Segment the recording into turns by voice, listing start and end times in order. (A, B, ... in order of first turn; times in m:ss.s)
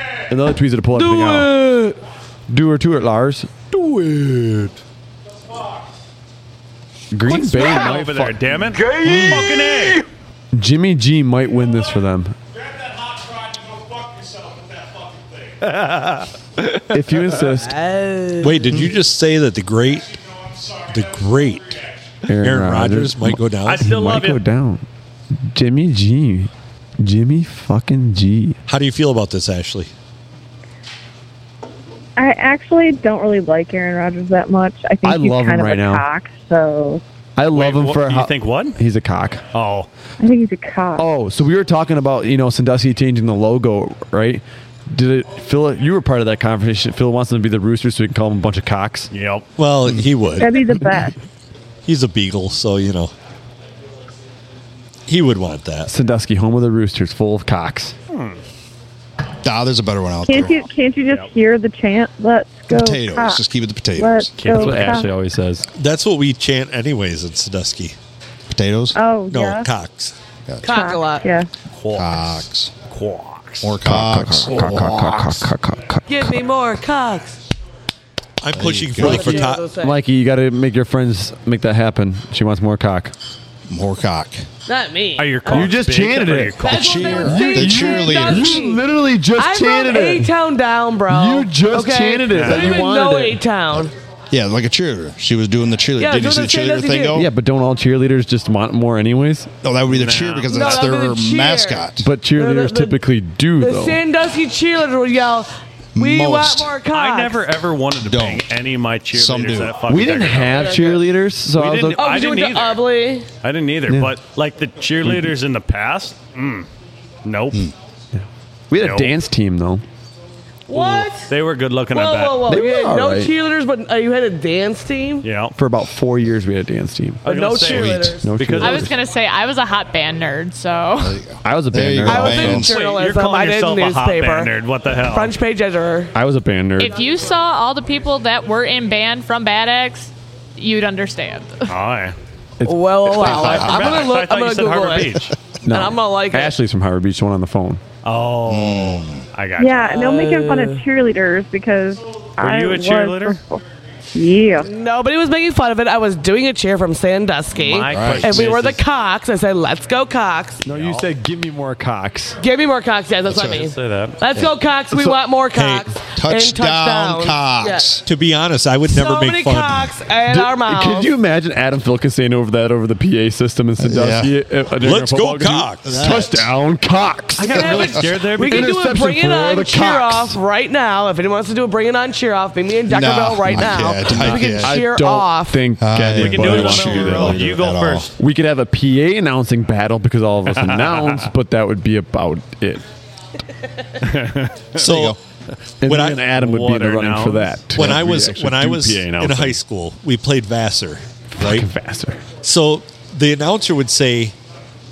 0:00.3-0:01.6 A
0:00.9-0:02.0 B
0:02.5-0:03.5 A
0:07.1-0:08.4 A
0:07.3-0:10.0 C
0:09.0-0:09.4 A
0:10.5-0:12.4 A
0:15.6-0:16.3 C
0:16.9-0:17.8 A
0:17.6-0:18.8 B
0:18.4-0:20.2 D
0:20.8-0:23.9 D
0:22.2-0:28.6 A
0:23.6-0:24.4 C
0:28.7-0:29.9 D
0:32.2-0:37.0 E
0:35.0-0:36.0 A
0:37.4-0:39.4 A
0:37.5-0:38.8 C
0:39.5-0:39.9 C
0:40.2-0:41.1 E
0:41.0-0:49.1 A
0:49.1-0:49.5 C
0:49.6-0:50.5 D
0:50.4-0:51.2 E
0:51.9-0:53.1 D
0:55.1-0:55.9 D
0:55.9-0:57.9 A
0:58.1-0:58.4 C
0:59.4-1:00.6 F
1:00.3-1:03.4 E
1:02.7-1:04.3 F
1:04.0-1:05.1 E
1:04.4-1:05.0 C
1:04.4-1:05.7 A
1:05.7-1:08.0 D
1:08.5-1:09.0 F
1:08.9-1:09.7 E
1:09.3-1:10.2 D
1:10.5-1:10.7 F
1:10.6-1:11.3 B
1:10.6-1:11.5 E
1:11.8-1:13.7 C
1:11.9-1:12.7 F
1:13.6-1:15.4 F
1:13.8-1:16.4 A
1:16.1-1:17.4 B
1:18.4-1:19.6 D
1:18.5-1:19.5 F
1:18.9-1:20.0 B
1:19.0-1:23.1 A
1:23.7-1:24.5 F
1:24.7-1:25.8 B
1:25.2-1:27.5 C
1:25.5-1:30.3 A
1:26.6-1:33.9 B
1:26.8-1:28.6 F
1:31.1-1:33.4 A
1:32.3-1:32.8 C
1:34.3-1:37.3 F
1:36.0-1:37.2 B
1:37.1-1:39.5 A
1:39.6-1:42.1 F
1:39.9-1:40.9 C
1:40.5-1:43.0 B
1:42.0-1:44.0 A
1:43.6-1:47.4 B
1:46.0-1:46.8 F
1:46.9-1:51.0 C
1:48.0-1:48.4 F
1:49.1-1:49.8 F
1:49.9-1:52.1 A
1:50.4-1:51.0 B
1:51.6-1:52.8 C
1:52.0-1:53.3 B
1:53.4-1:56.7 C
1:53.9-1:54.2 A
1:55.0-1:55.3 A
1:57.2-1:57.6 C
1:58.2-1:59.8 A
1:58.7-1:59.2 C
2:00.7-2:01.3 B
2:00.7-2:02.5 C
2:01.9-2:05.3 B
2:02.5-2:03.3 A
2:05.2-2:05.6 C
2:05.6-2:07.2 A
2:07.2-2:08.3 B
2:07.2-2:08.9 C
2:07.7-2:08.1 F
2:08.2-2:08.9 A
2:08.6-2:11.2 G
2:11.0-2:12.8 F
2:11.4-2:12.7 A
2:12.0-2:16.1 B
2:12.7-2:15.4 C
2:16.1-2:16.9 A
2:16.8-2:21.7 G
2:21.7-2:22.2 C
2:22.6-2:23.7 A
2:22.6-2:26.6 B
2:23.2-2:25.3 C
2:23.4-2:23.9 F
2:25.6-2:27.8 A
2:28.0-2:30.1 C
2:28.5-2:29.2 F
2:29.6-2:33.6 E
2:30.0-2:30.8 B
2:32.4-2:33.4 C
2:34.1-2:34.7 E
2:34.6-2:40.6 B
2:37.5-2:38.8 C
2:37.9-2:38.5 F
2:40.6-2:42.4 A
2:40.7-2:41.1 C
2:42.4-2:48.0 B
2:43.3-2:43.6 F
2:43.4-2:44.2 C
2:44.9-2:45.2 A
2:46.1-2:48.0 F
2:48.0-2:49.9 D
2:48.9-2:51.1 B
2:50.3-3:00.3 A
2:53.8-2:54.4 F
2:54.8-2:56.1 D
2:55.8-2:56.5 F
2:57.4-2:58.8 C
2:57.5-3:05.6 B
3:02.9-3:04.8 F
3:03.5-3:07.6 A
3:05.8-3:08.1 F
3:06.2-3:08.1 C
3:08.2-3:12.8 A
3:10.5-3:11.3 C
3:14.0-3:14.8 C
3:14.8-3:15.2 D
3:14.8-3:15.2 F
3:15.8-3:19.6 A
3:15.8-3:16.3 D
3:16.3-3:17.6 C
3:17.8-3:21.7 D
3:21.4-3:22.2 A
3:22.4-3:24.4 D